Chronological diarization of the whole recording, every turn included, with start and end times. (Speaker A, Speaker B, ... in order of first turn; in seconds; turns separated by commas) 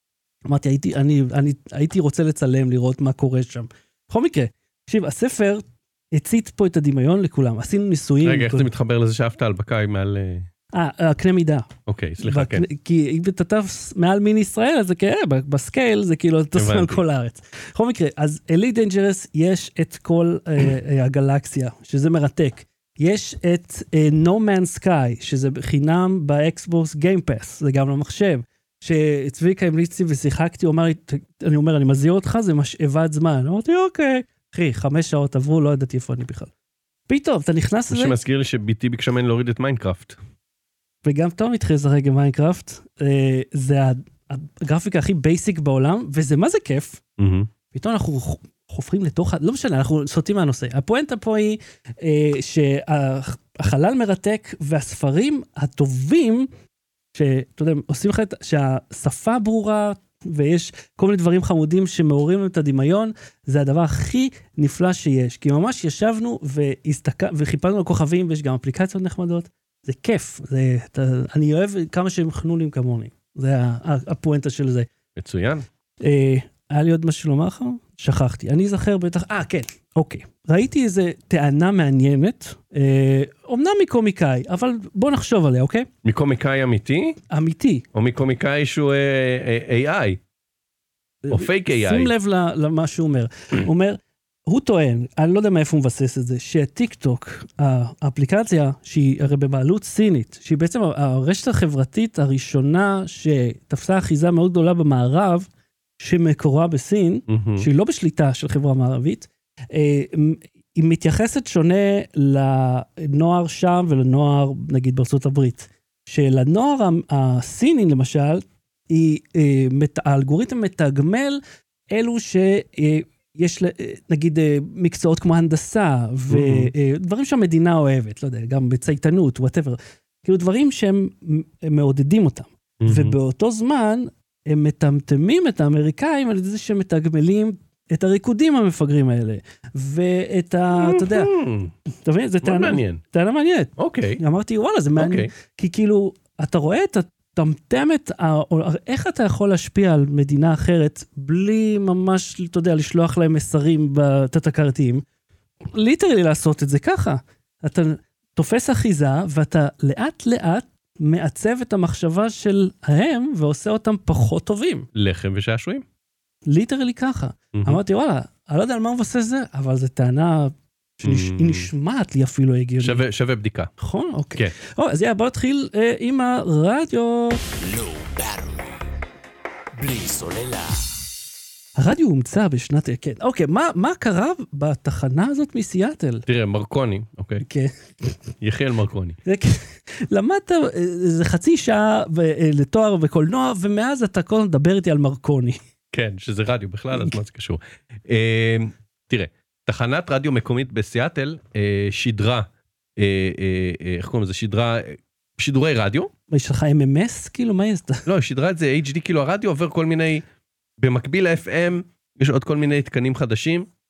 Speaker A: 0.5-8.7, Speaker B: 8.2-10.5, Speaker A: 10.7-11.7, Speaker B: 11.9-12.7, Speaker A: 12.2-36.5, Speaker B: 16.6-17.0, Speaker A: 37.1-38.1, Speaker B: 37.9-40.2, Speaker A: 41.0-47.0, Speaker B: 47.2-47.5, Speaker A: 47.7-56.5, Speaker A: 57.1-74.9, Speaker B: 75.2-75.7, Speaker A: 76.0-85.9, Speaker B: 86.0-87.2, Speaker A: 87.3-87.8, Speaker B: 87.9-90.2, Speaker A: 91.2-105.5, Speaker B: 91.3-92.1, Speaker A: 106.0-141.3, Speaker B: 107.3-107.7, Speaker B: 126.3-126.7, Speaker B: 132.8-133.2, Speaker B: 140.8-141.7, Speaker A: 142.0-155.0, Speaker B: 142.4-143.0, Speaker B: 143.8-144.2, Speaker B: 145.0-145.3, Speaker A: 155.7-164.9, Speaker B: 164.9-165.8, Speaker A: 166.5-173.0, Speaker B: 167.5-167.8, Speaker B: 171.0-171.7, Speaker B: 172.8-173.7, Speaker A: 173.8-177.4, Speaker C: 177.6-178.9, Speaker C: 179.8-181.0, Speaker A: 181.8-186.2, Speaker B: 186.3-187.4, Speaker A: 187.4-188.2, Speaker B: 188.4-189.2, Speaker A: 189.2-195.6, Speaker B: 195.9-206.1, Speaker A: 206.3-208.1, Speaker B: 208.1-210.2, Speaker B: 210.8-213.7